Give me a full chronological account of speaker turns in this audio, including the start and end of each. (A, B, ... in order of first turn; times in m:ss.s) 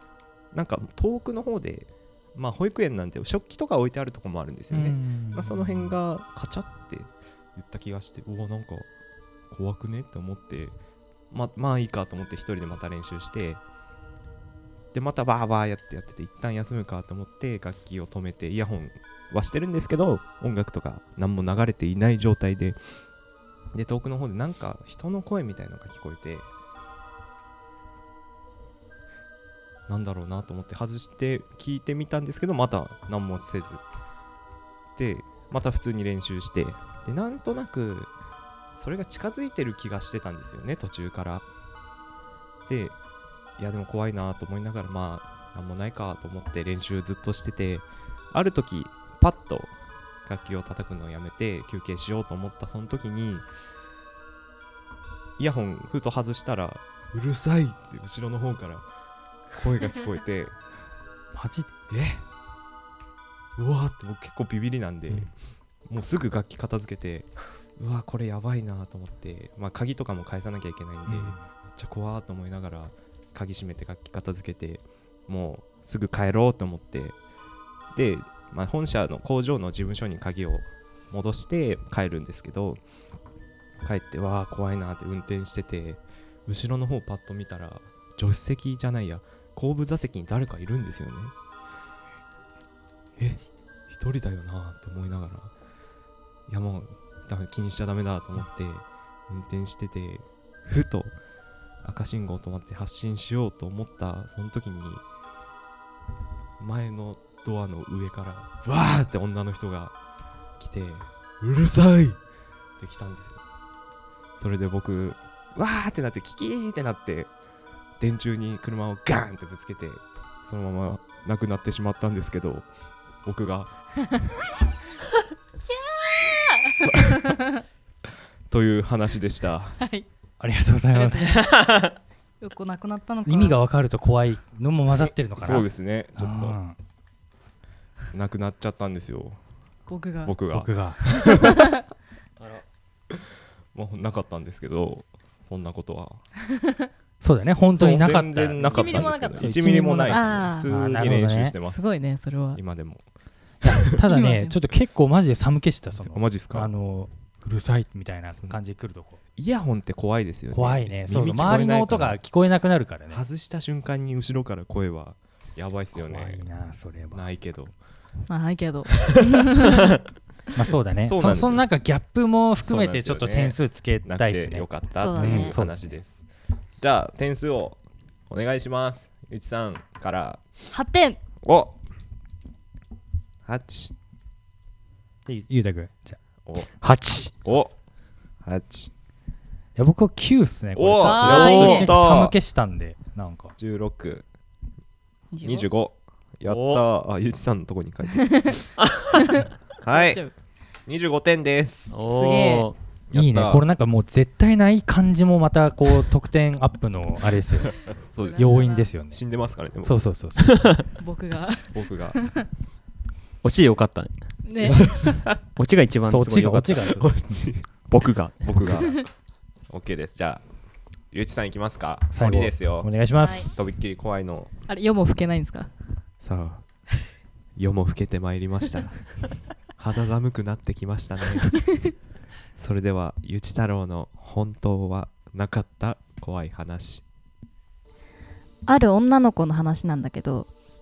0:00.5-0:08.9 A
0:04.7-0:05.9 B
0:09.5-0:10.8 A
0:11.3-0:13.6 A
0:14.9-0:22.8 A
0:23.7-0:26.5 A
0:29.9-0:33.8 A
0:35.0-0:38.1 A
0:38.7-0:41.4 A
0:42.7-0:43.0 A
0:43.6-0:49.7 A
0:50.2-0:53.4 A
0:55.4-0:58.8 A
0:59.5-1:00.5 A
1:01.3-1:01.7 B
1:01.9-1:02.2 A
1:03.6-1:05.3 A
1:05.8-1:17.2 A
1:11.1-1:11.4 B
1:17.9-1:22.8 A
1:23.8-1:31.3 A
1:33.2-1:35.5 A
1:36.5-1:41.2 A
1:41.8-1:45.0 A
1:46.6-1:49.9 A
1:50.6-1:52.2 A
1:52.8-1:53.4 A
1:54.4-1:57.3 A
1:58.0-2:02.7 A
2:03.2-2:03.7 A
2:05.7-2:07.4 C
2:08.5-2:09.8 A
2:10.4-2:11.4 B
2:10.9-2:11.7 C
2:12.4-2:13.6 C
2:13.2-2:16.8 B
2:15.0-2:16.6 A
2:18.1-2:19.4 A
2:19.9-2:20.3 C
2:20.2-2:21.6 A
2:20.5-2:21.0 B
2:21.3-2:21.7 C
2:23.7-2:26.2 A
2:27.2-2:31.5 B
2:27.8-2:31.9 A
2:28.6-2:29.5 C
2:30.1-2:30.7 C
2:31.6-2:32.6 C
2:32.5-2:33.0 A
2:33.6-2:39.2 B
2:33.9-2:34.6 C
2:36.0-2:36.7 A
2:39.4-2:42.2 A
2:40.5-2:43.2 B
2:43.1-2:46.4 A
2:45.9-2:47.3 B
2:47.1-2:47.7 A
2:48.3-2:49.9 C
2:50.5-2:55.9 B
2:51.0-2:51.7 A
2:52.6-2:56.2 A
2:54.9-2:55.6 C
2:56.8-3:00.7 A
3:00.7-3:01.2 C
3:01.4-3:01.8 A
3:03.4-3:03.9 A
3:05.2-3:06.2 B
3:06.4-3:06.7 A
3:06.8-3:07.3 D
3:07.4-3:07.7 A
3:08.4-3:08.9 A
3:09.8-3:13.5 B
3:10.8-3:12.3 A
3:11.0-3:11.9 C
3:11.3-3:11.8 D
3:13.6-3:14.2 A
3:15.3-3:15.7 C
3:15.4-3:18.6 A
3:16.4-3:16.8 D
3:18.8-3:19.1 D
3:19.8-3:20.2 A
3:19.9-3:20.3 C
3:20.8-3:21.9 A
3:21.9-3:22.7 D
3:22.1-3:22.7 C
3:23.1-3:23.6 A
3:23.1-3:27.8 B
3:28.0-3:30.7 A
3:28.2-3:28.9 C
3:28.4-3:29.2 B
3:29.8-3:30.7 B
3:30.5-3:30.8 D
3:31.0-3:32.4 C
3:31.7-3:32.2 A
3:33.4-3:34.1 D
3:34.4-3:35.0 C
3:34.6-3:37.1 D
3:34.7-3:35.1 A
3:36.1-3:37.1 B
3:37.0-3:37.8 A
3:37.9-3:38.7 D
3:38.4-3:39.1 A
3:39.7-3:40.4 A
3:41.1-3:44.5 A
3:42.1-3:43.6 B
3:43.2-3:43.5 C
3:44.7-3:45.7 C
3:46.2-3:46.6 A
3:47.6-3:51.6 A
3:52.6-3:57.0 A
3:58.6-4:00.5 C